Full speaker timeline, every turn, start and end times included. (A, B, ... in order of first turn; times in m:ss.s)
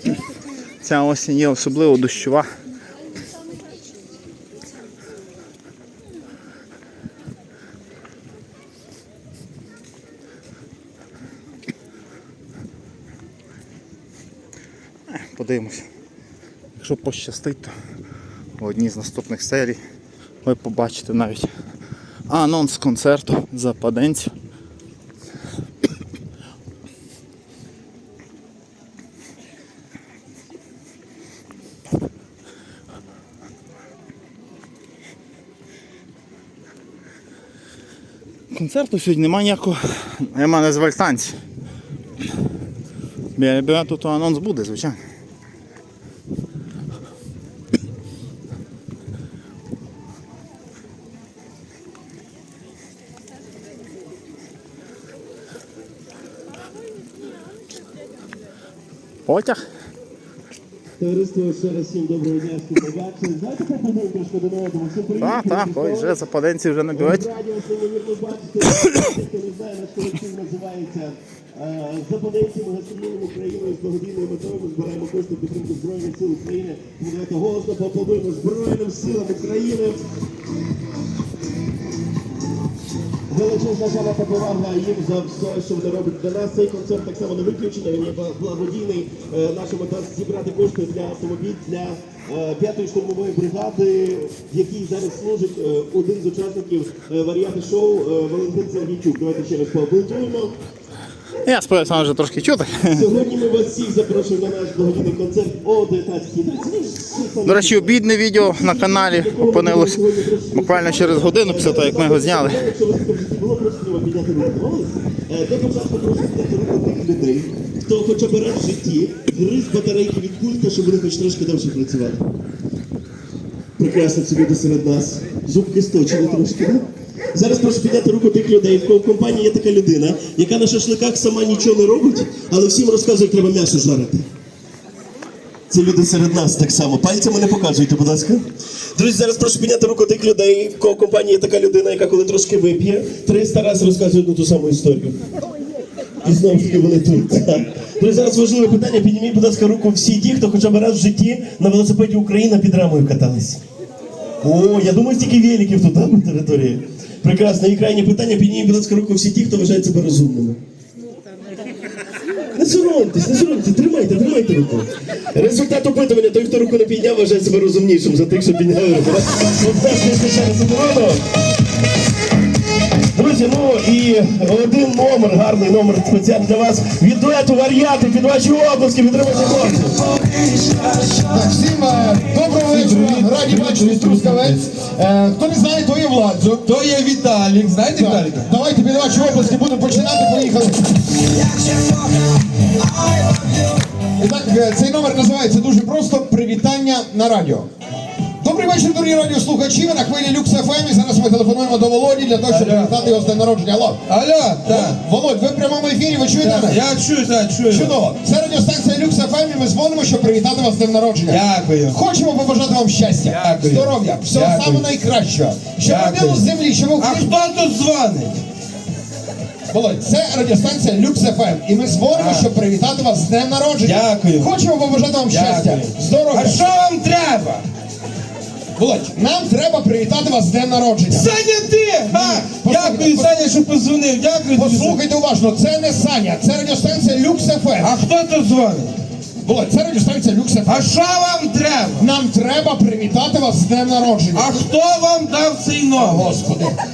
0:00.8-0:02.5 A
0:15.1-0:15.9 A
0:16.8-0:17.7 A
0:18.6-0:19.8 A
0:20.4-0:21.5 A
0:22.3-0:24.3 A
0:38.5-0:41.4 A
0:43.4-0:45.0 A
0:59.3-0:59.6 A
1:01.0-1:06.2 B
1:05.2-1:07.2 A
1:06.9-1:20.0 B
1:23.3-1:40.6 B
1:41.4-1:43.0 A
1:42.9-2:02.2 B
1:47.4-1:50.0 A
1:50.5-1:52.7 A
2:03.8-2:14.3 B
2:15.7-2:25.2 B
2:26.2-2:33.6 B
2:34.4-2:40.6 B
2:42.5-2:51.2 B
2:53.1-3:00.0 B
3:00.5-3:01.3 C
3:01.3-3:06.7 D
3:02.6-3:04.6 C
3:06.6-3:08.5 C
3:07.9-3:10.8 D
3:13.0-3:13.6 C
3:14.2-3:17.7 D
3:18.4-3:24.0 D
3:22.5-3:23.1 C
3:24.1-3:25.0 C
3:24.6-3:26.8 D
3:26.4-3:28.0 C
3:27.7-3:37.4 D
3:31.3-3:32.0 C
3:33.3-3:34.9 C
3:35.8-3:36.5 C
3:37.0-3:38.4 C
3:39.7-3:46.6 D
3:42.1-3:42.5 C
3:43.8-3:44.5 C
3:45.3-3:47.7 C
3:48.8-3:51.3 D
3:51.1-3:55.0 C
3:52.1-3:53.5 D
3:54.5-3:57.9 D
3:57.8-3:59.0 C
3:59.4-4:00.8 D
4:00.7-4:02.1 C
4:02.0-4:04.6 D
4:04.3-4:06.7 C
4:06.0-4:06.7 D